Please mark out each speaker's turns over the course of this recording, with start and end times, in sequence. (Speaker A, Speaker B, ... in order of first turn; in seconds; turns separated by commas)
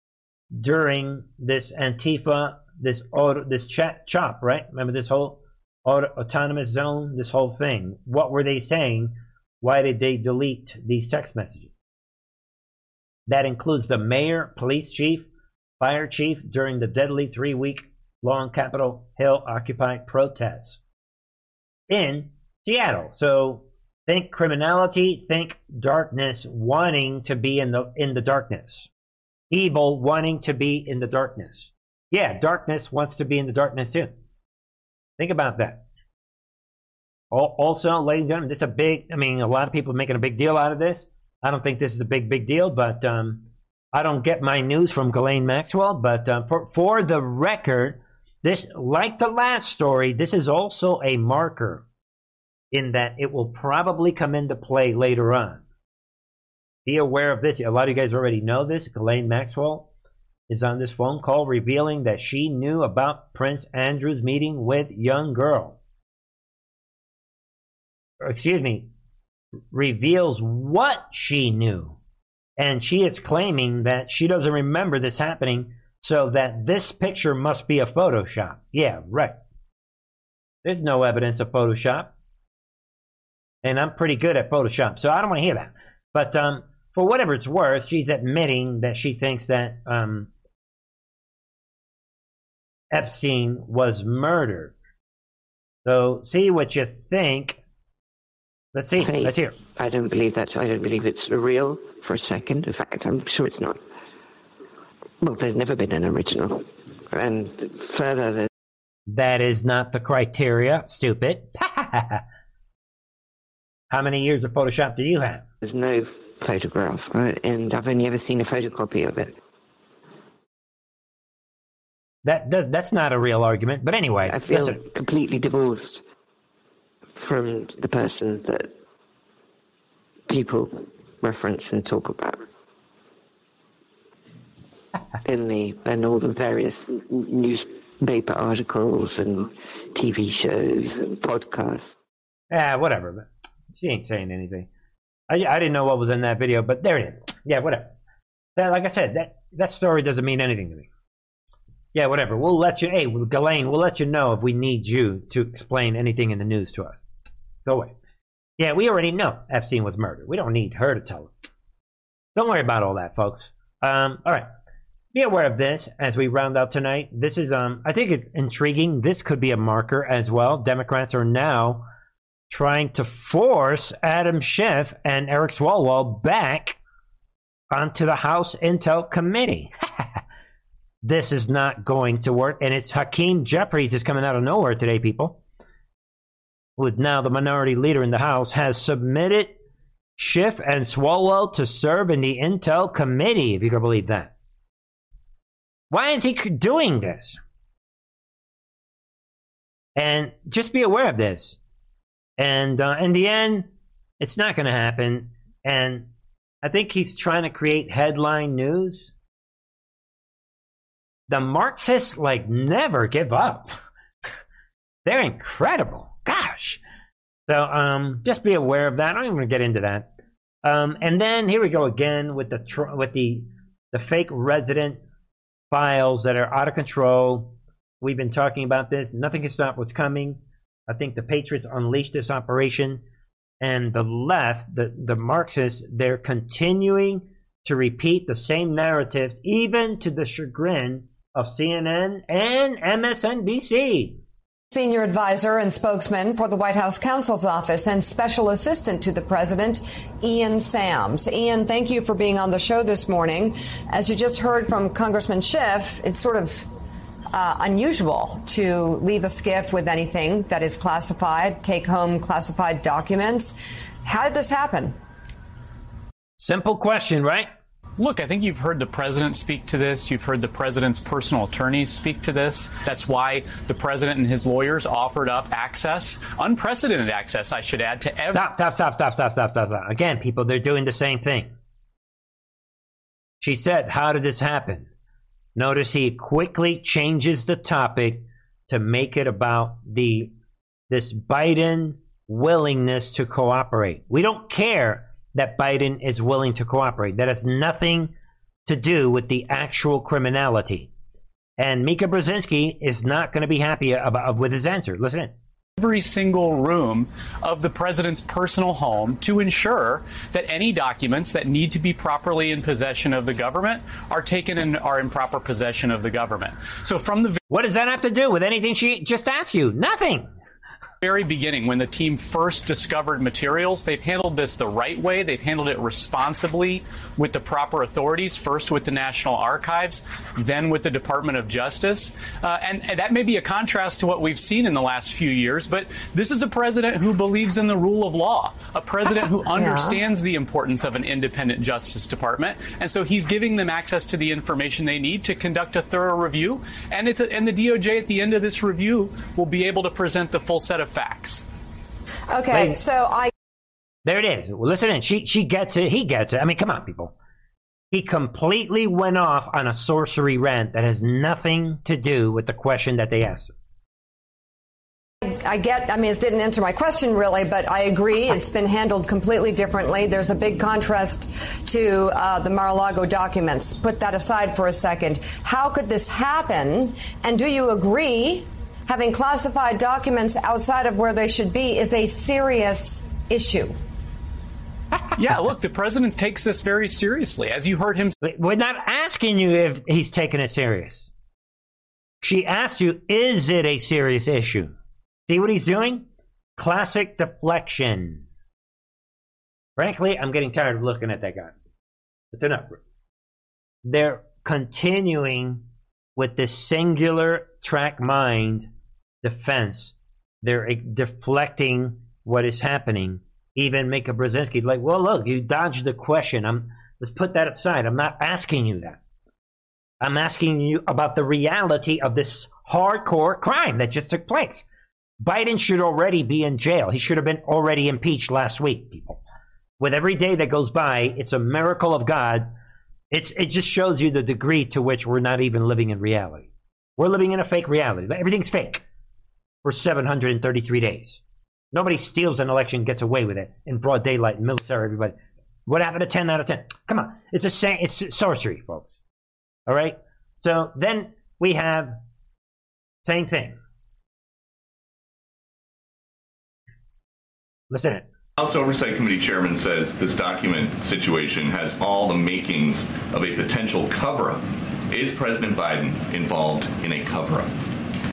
Speaker A: 0.5-11.7, Speaker A: 13.3-15.3, Speaker A: 15.8-20.8, Speaker A: 21.9-28.9, Speaker A: 29.5-34.1, Speaker A: 35.2-35.8, Speaker A: 37.3-51.8, Speaker A: 52.7-55.6, Speaker A: 56.9-59.9, Speaker A: 60.5-65.8, Speaker A: 68.2-68.9, Speaker A: 69.7-72.0, Speaker A: 72.6-79.3, Speaker A: 80.6-82.1, Speaker A: 83.6-90.3, Speaker A: 92.9-94.7, Speaker A: 95.8-97.6, Speaker A: 98.7-99.5, Speaker B: 99.0-103.8, Speaker B: 105.2-108.5, Speaker A: 109.1-112.2, Speaker A: 113.9-115.4, Speaker B: 115.6-119.3, Speaker A: 122.2-124.8, Speaker B: 124.2-126.0, Speaker B: 127.1-128.7, Speaker B: 130.3-132.4, Speaker B: 135.2-141.9, Speaker A: 142.5-144.7, Speaker A: 145.3-147.9, Speaker A: 148.6-150.9, Speaker A: 151.9-157.0, Speaker A: 157.6-157.9, Speaker A: 158.6-161.3, Speaker A: 162.3-164.5, Speaker A: 165.1-171.8, Speaker A: 172.5-176.8, Speaker A: 177.7-179.7, Speaker A: 181.0-185.4, Speaker A: 186.8-189.6, Speaker A: 190.2-194.3, Speaker A: 195.9-197.4, Speaker A: 199.9-201.6, Speaker A: 202.4-206.1, Speaker A: 206.6-209.1, Speaker A: 211.3-213.7, Speaker A: 215.0-216.8, Speaker A: 217.5-220.1, Speaker A: 220.6-225.0, Speaker A: 225.7-233.0, Speaker A: 233.6-244.2, Speaker C: 244.7-256.7, Speaker C: 257.3-264.9, Speaker A: 266.4-267.5, Speaker D: 268.0-278.4, Speaker A: 278.3-281.5, Speaker A: 283.4-284.9, Speaker A: 285.6-290.3, Speaker A: 290.9-298.1, Speaker A: 298.6-300.9, Speaker A: 301.6-305.3, Speaker D: 305.8-317.4, Speaker A: 317.5-320.3, Speaker D: 321.0-351.4, Speaker C: 339.5-340.0, Speaker C: 352.3-353.3, Speaker A: 354.0-357.1, Speaker A: 357.9-363.5, Speaker C: 365.2-383.7, Speaker D: 385.2-388.1, Speaker A: 388.2-391.1, Speaker A: 392.2-394.7, Speaker A: 395.3-398.2, Speaker A: 399.8-401.5, Speaker A: 402.3-402.8, Speaker A: 403.8-405.6, Speaker A: 406.1-408.7, Speaker A: 409.2-419.0, Speaker A: 420.0-424.6, Speaker A: 425.2-429.2, Speaker A: 429.8-432.5, Speaker A: 433.1-438.8, Speaker A: 439.6-441.2, Speaker A: 441.7-448.9, Speaker A: 449.7-452.0, Speaker A: 453.0-453.6, Speaker A: 457.7-458.1, Speaker E: 458.4-467.5